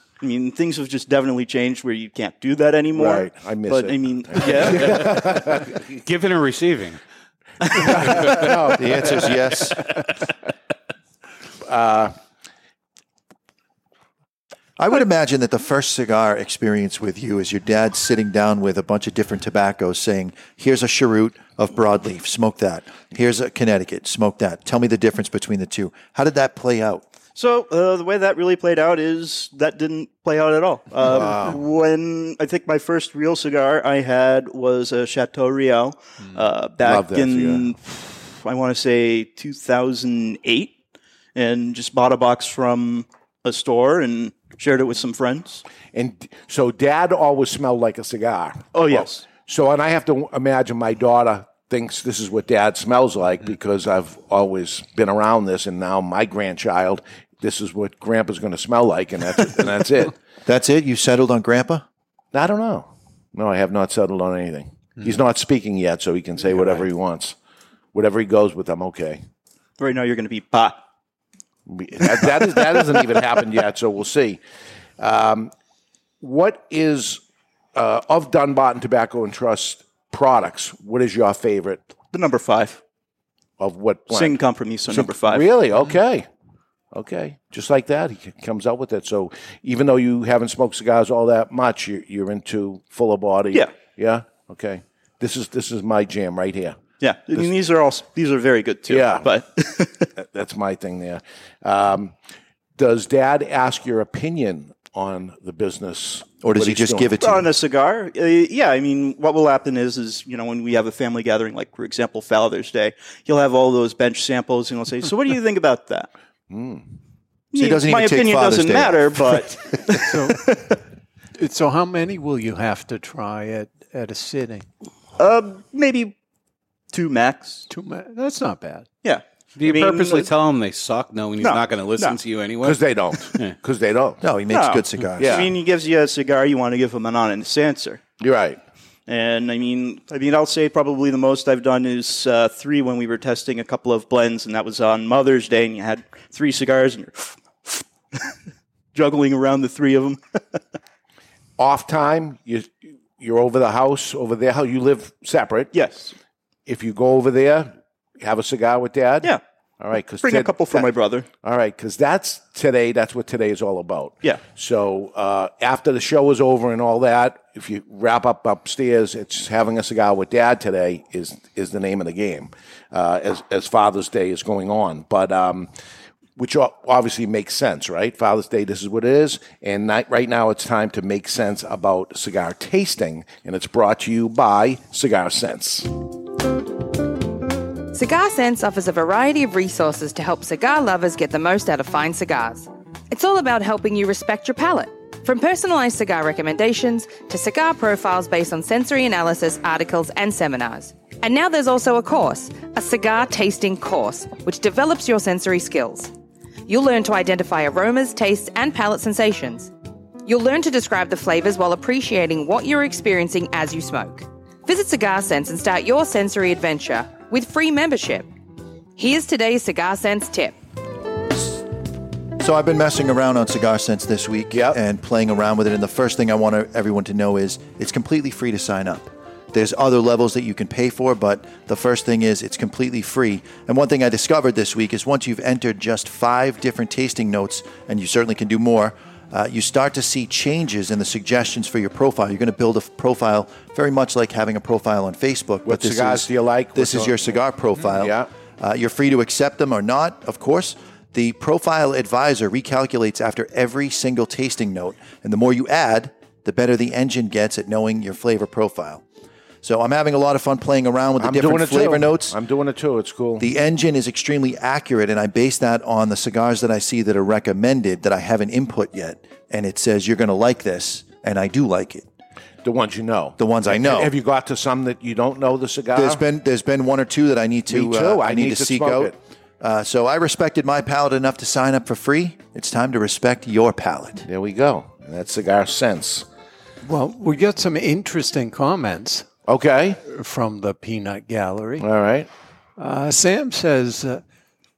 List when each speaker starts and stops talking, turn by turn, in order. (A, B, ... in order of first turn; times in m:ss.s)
0:00.2-0:05.2 A
0:03.0-0:05.9 B
0:04.8-0:05.2 C
0:06.0-0:07.0 C
0:07.6-0:08.0 A
0:07.8-0:09.5 B
0:08.0-0:08.4 C
0:08.8-0:09.8 D
0:11.6-0:12.1 B
0:14.8-0:27.0 D
0:27.4-0:40.8 A
0:31.0-0:31.6 B
0:36.8-0:37.7 B
0:41.4-0:45.6 A
0:45.9-1:00.2 B
0:48.7-0:49.2 A
1:00.4-1:01.8 D
1:02.3-1:07.4 B
1:07.9-1:09.2 B
1:09.8-1:10.8 A
1:11.7-1:14.4 B
1:15.0-1:15.5 B
1:16.2-1:17.2 B
1:17.8-1:21.8 B
1:22.1-1:22.8 A
1:23.6-1:26.3 B
1:24.1-1:25.5 A
1:26.9-1:36.8 B
1:37.0-1:40.1 A
1:38.9-1:39.3 B
1:40.2-1:42.2 B
1:42.8-1:47.1 B
1:46.4-1:47.5 D
1:47.2-1:56.1 A
1:56.5-1:56.9 B
1:57.5-2:00.8 A
1:57.5-1:59.6 D
2:00.1-2:00.5 E
2:01.4-2:04.7 E
2:05.2-2:06.2 A
2:06.9-2:07.7 A
2:07.7-2:08.9 E
2:09.0-2:10.3 A
2:09.6-2:13.6 C
2:11.4-2:12.2 A
2:12.6-2:14.2 B
2:14.2-2:15.5 D
2:14.5-2:18.0 A
2:15.2-2:15.5 B
2:18.2-2:18.6 B
2:19.1-2:28.2 A
2:28.9-2:30.6 A
2:31.6-2:35.7 B
2:35.7-2:36.1 A
2:36.7-2:40.9 B
2:40.2-2:41.3 A
2:41.4-2:55.7 B
2:56.4-3:05.9 B
3:07.9-3:26.1 F
3:26.7-3:29.7 F
3:30.3-3:38.3 F
3:39.0-3:40.6 F
3:42.4-4:19.0 D
4:05.6-4:07.2 B
4:08.0-4:08.3 B
4:19.6-4:22.4 D
4:21.2-4:23.5 B
4:23.4-4:32.1 D
4:32.6-4:36.2 B
4:33.4-4:34.1 D
4:35.9-4:44.3 D
4:37.7-4:39.2 B
4:44.3-4:46.3 B
4:46.8-4:49.3 E
4:49.5-4:50.0 B
4:50.1-4:51.9 E
4:51.8-4:52.3 B
4:52.8-4:54.2 E